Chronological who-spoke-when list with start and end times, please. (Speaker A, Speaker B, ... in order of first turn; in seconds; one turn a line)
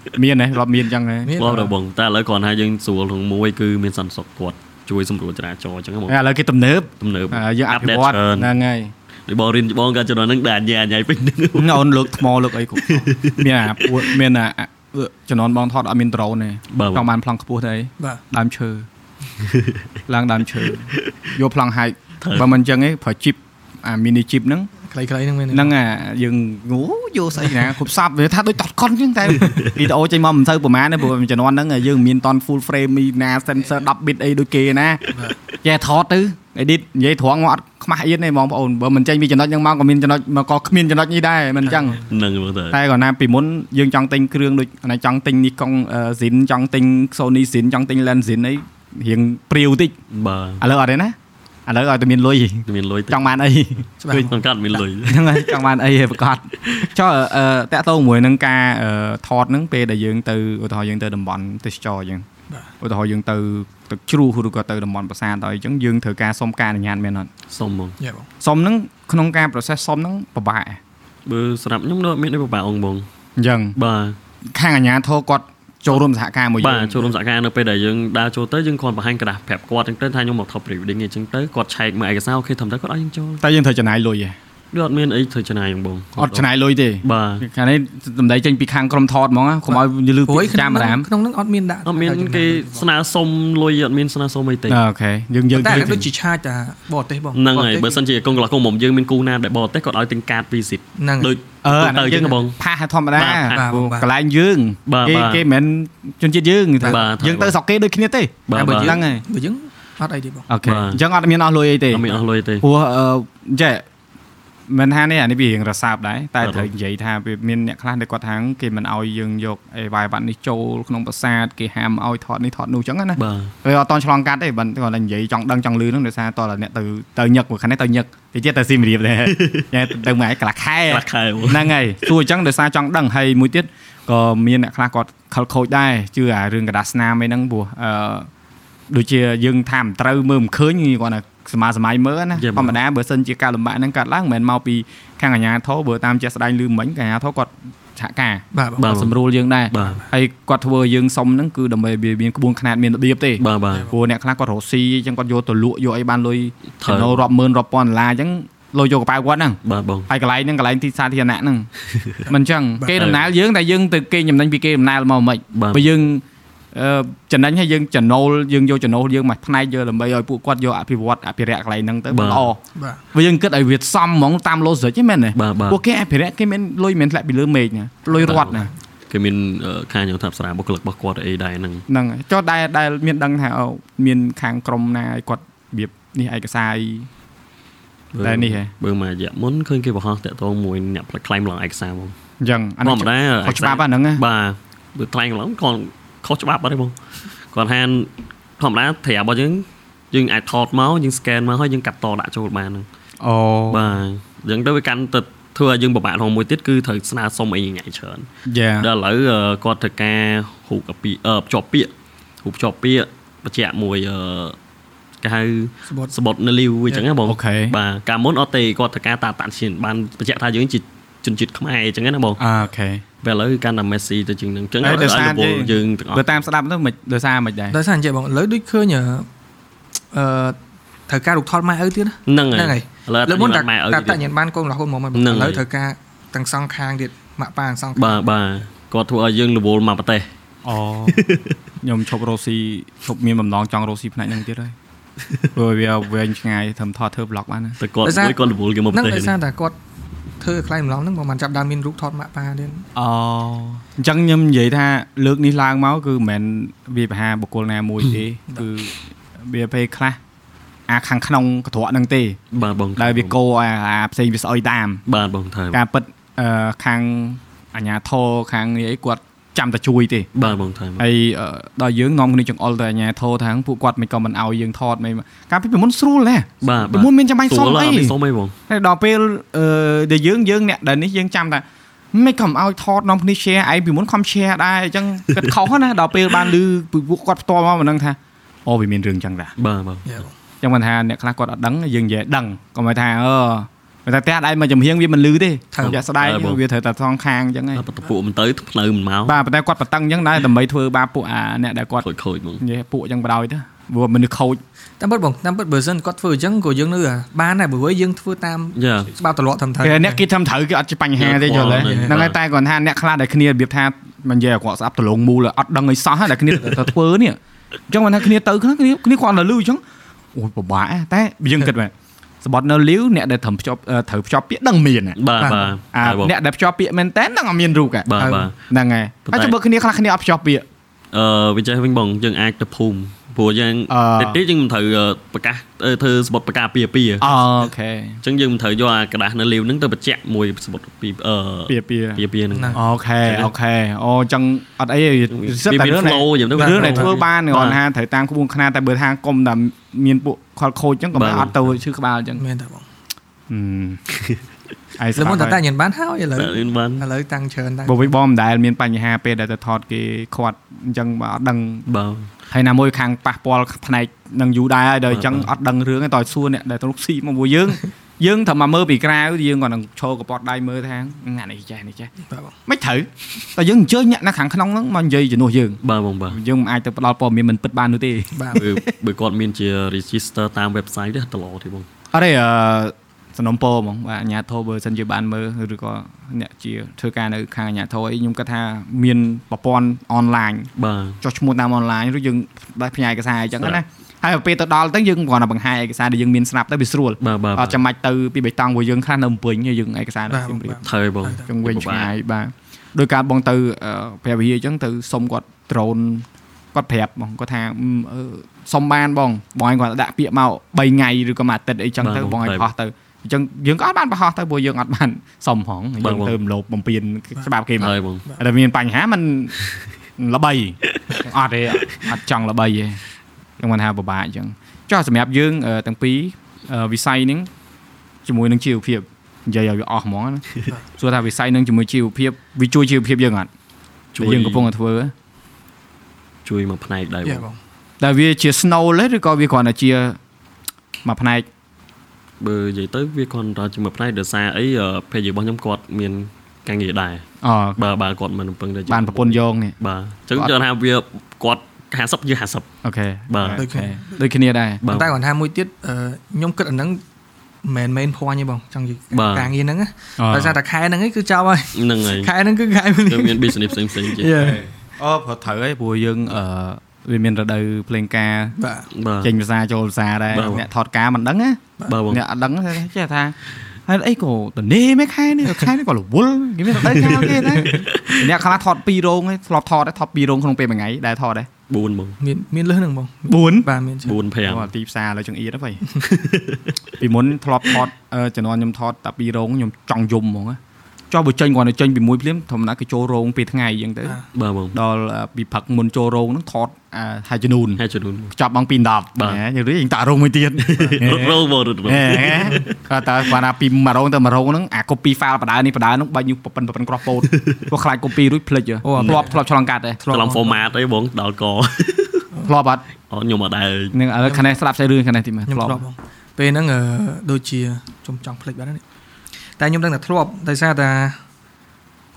Speaker A: 0.1-1.4
Speaker B: 1.2-1.7
Speaker C: 1.4-6.2
Speaker A: 6.1-8.9
Speaker C: 7.0-8.5
Speaker C: 9.3-11.9
Speaker A: 11.5-18.9
Speaker C: 12.9-13.9
Speaker C: 16.7-17.1
Speaker C: 19.4-19.9
Speaker A: 20.1-24.7
Speaker C: 22.2-22.5
Speaker B: 24.9-25.7
Speaker A: 25.5-35.0
Speaker C: 29.4-29.7
Speaker B: 35.1-35.4
Speaker A: 35.6-42.0
Speaker B: 41.6-42.0
Speaker C: 42.1-42.8
Speaker A: 42.7-50.0
Speaker C: 50.1-50.6
Speaker A: 50.6-51.1
Speaker A: 51.7-54.3
Speaker C: 52.7-53.2
Speaker B: 54.0-54.4
Speaker C: 54.1-55.2
Speaker A: 55.0-62.2
Speaker A: 62.8-67.3
Speaker C: 67.5-68.0
Speaker B: 68.0-68.3
Speaker A: 68.4-70.8
Speaker C: 71.3-73.1
Speaker A: 73.4-73.8
Speaker C: 73.8-74.2
Speaker A: 74.5-77.0
Speaker C: 76.6-83.4
Speaker A: 83.4-84.4
Speaker C: 84.7-86.5
Speaker A: 86.2-91.1
Speaker C: 87.0-87.5
Speaker B: 89.7-92.9
Speaker C: 91.9-94.8
Speaker A: 94.7-96.1
Speaker B: 95.5-98.0
Speaker C: 95.7-95.9
Speaker C: 97.3-102.6
Speaker B: 101.0-101.3
Speaker A: 101.6-109.2
Speaker C: 103.2-103.6
Speaker B: 103.5-104.1
Speaker C: 104.9-105.4
Speaker C: 106.8-107.5
Speaker C: 108.5-109.0
Speaker B: 108.5-110.5
Speaker A: 110.5-112.1
Speaker C: 110.6-111.0
Speaker C: 111.9-112.7
Speaker A: 112.6-113.8
Speaker A: 114.7-138.3
Speaker C: 116.4-116.7
Speaker C: 123.2-123.5
Speaker C: 129.3-129.7
Speaker C: 130.9-131.7
Speaker A: 138.9-159.6
Speaker C: 142.4-142.8
Speaker B: 148.5-148.8
Speaker C: 148.8-149.1
Speaker C: 149.7-150.0
Speaker B: 149.8-150.0
Speaker C: 153.4-153.9
Speaker C: 156.8-157.2
Speaker C: 159.7-160.1
Speaker A: 160.1-161.7
Speaker A: 162.3-172.6
Speaker C: 162.9-163.2
Speaker C: 165.5-165.9
Speaker C: 172.1-172.5
Speaker B: 172.7-173.0
Speaker A: 173.1-178.7
Speaker C: 175.4-175.8
Speaker B: 178.1-178.7
Speaker C: 178.2-178.6
Speaker C: 179.1-181.8
Speaker A: 181.9-187.1
Speaker C: 188.1-192.1
Speaker A: 188.2-188.7
Speaker A: 192.4-194.2
Speaker C: 192.8-196.9
Speaker C: 197.5-202.9
Speaker A: 203.2-203.9
Speaker C: 203.7-208.3
Speaker A: 208.5-208.9
Speaker C: 208.8-211.9
Speaker C: 212.4-214.6
Speaker C: 215.2-222.4
Speaker B: 215.9-216.1
Speaker A: 217.2-217.8
Speaker A: 222.4-223.0
Speaker C: 223.2-226.3
Speaker A: 224.8-227.8
Speaker B: 227.7-229.3
Speaker B: 230.1-230.6
Speaker B: 231.1-238.2
Speaker C: 232.3-234.2
Speaker C: 235.1-235.6
Speaker C: 238.0-240.3
Speaker A: 240.7-244.7
Speaker C: 241.1-241.6
Speaker A: 245.6-247.8
Speaker C: 247.8-249.3
Speaker B: 248.0-248.4
Speaker B: 248.9-249.8
Speaker B: 250.4-252.9
Speaker A: 252.9-260.2
Speaker A: 260.9-262.4
Speaker C: 262.5-263.3
Speaker A: 263.0-265.0
Speaker C: 265.1-265.8
Speaker A: 265.7-270.3
Speaker C: 270.4-271.0
Speaker A: 271.0-278.1
Speaker C: 276.6-278.6
Speaker A: 278.7-289.5
Speaker C: 289.6-290.1
Speaker B: 290.1-290.3
Speaker A: 290.6-297.9
Speaker B: 295.7-296.0
Speaker C: 295.8-296.6
Speaker C: 297.8-299.4
Speaker A: 299.3-302.1
Speaker C: 302.0-302.6
Speaker A: 302.6-304.6
Speaker B: 305.0-310.2
Speaker C: 308.8-309.1
Speaker A: 309.8-317.4
Speaker C: 311.2-312.4
Speaker B: 311.7-312.1
Speaker A: 317.9-319.8
Speaker A: 320.3-325.2
Speaker C: 325.2-326.3
Speaker B: 325.4-325.7
Speaker A: 325.9-328.1
Speaker C: 328.1-328.5
Speaker B: 328.2-328.5
Speaker A: 328.7-330.6
Speaker C: 329.3-329.5
Speaker C: 331.1-337.3
Speaker A: 333.9-334.4
Speaker A: 337.2-338.2
Speaker C: 338.2-343.5
Speaker A: 341.7-352.4
Speaker B: 342.5-342.8
Speaker C: 345.3-347.8
Speaker B: 346.6-347.2
Speaker C: 351.1-351.8
Speaker B: 352.4-352.9
Speaker A: 353.5-354.0
Speaker A: 355.0-355.6
Speaker B: 355.2-358.1
Speaker C: 356.4-357.0
Speaker A: 357.9-361.9
Speaker C: 361.9-362.3
Speaker A: 362.5-372.1
Speaker C: 365.1-365.5
Speaker B: 372.2-372.6
Speaker A: 372.7-378.9
Speaker C: 375.8-376.4
Speaker B: 378.3-378.6
Speaker C: 378.6-381.9
Speaker A: 382.1-390.7
Speaker C: 390.8-391.2
Speaker A: 391.2-400.8
Speaker C: 397.2-397.8
Speaker B: 400.3-401.5
Speaker C: 400.8-402.1
Speaker A: 401.5-419.6
Speaker C: 412.0-412.7
Speaker C: 416.0-416.4
Speaker C: 417.8-418.2
Speaker A: 420.2-423.0
Speaker A: 423.6-427.5
Speaker A: 428.2-433.5
Speaker C: 434.1-434.7
Speaker A: 434.2-435.1
Speaker C: 436.4-437.4
Speaker B: 437.2-437.6
Speaker A: 438.0-440.2
Speaker A: 441.1-441.5
Speaker C: 442.4-447.2
Speaker A: 447.4-447.8
Speaker C: 447.8-452.7
Speaker A: 448.9-449.7
Speaker A: 452.8-454.8
Speaker C: 453.3-453.7
Speaker B: 453.6-454.0
Speaker C: 454.8-455.1
Speaker B: 454.9-457.0
Speaker B: 457.6-464.6
Speaker C: 459.1-459.5
Speaker A: 460.2-460.6
Speaker C: 461.7-462.3
Speaker C: 463.1-464.5
Speaker A: 464.4-468.6
Speaker B: 468.6-468.9
Speaker C: 468.9-469.3
Speaker A: 469.2-473.4
Speaker C: 470.3-470.6
Speaker C: 471.9-472.2
Speaker A: 473.9-481.5
Speaker C: 476.8-478.3
Speaker B: 477.5-477.9
Speaker C: 481.7-482.2
Speaker B: 482.2-484.2
Speaker A: 483.3-483.7
Speaker C: 484.1-484.7
Speaker A: 484.4-485.8
Speaker C: 486.0-486.8
Speaker A: 487.0-490.6
Speaker A: 491.1-494.2
Speaker C: 494.3-494.8
Speaker A: 494.7-510.0
Speaker C: 497.8-498.3
Speaker C: 500.6-502.8
Speaker C: 507.2-507.6
Speaker B: 508.8-509.4
Speaker C: 509.0-509.3
Speaker B: 510.0-510.6
Speaker C: 510.1-512.3
Speaker A: 512.4-512.8
Speaker C: 513.1-514.0
Speaker A: 513.9-515.8
Speaker B: 515.5-518.8
Speaker B: 519.6-521.2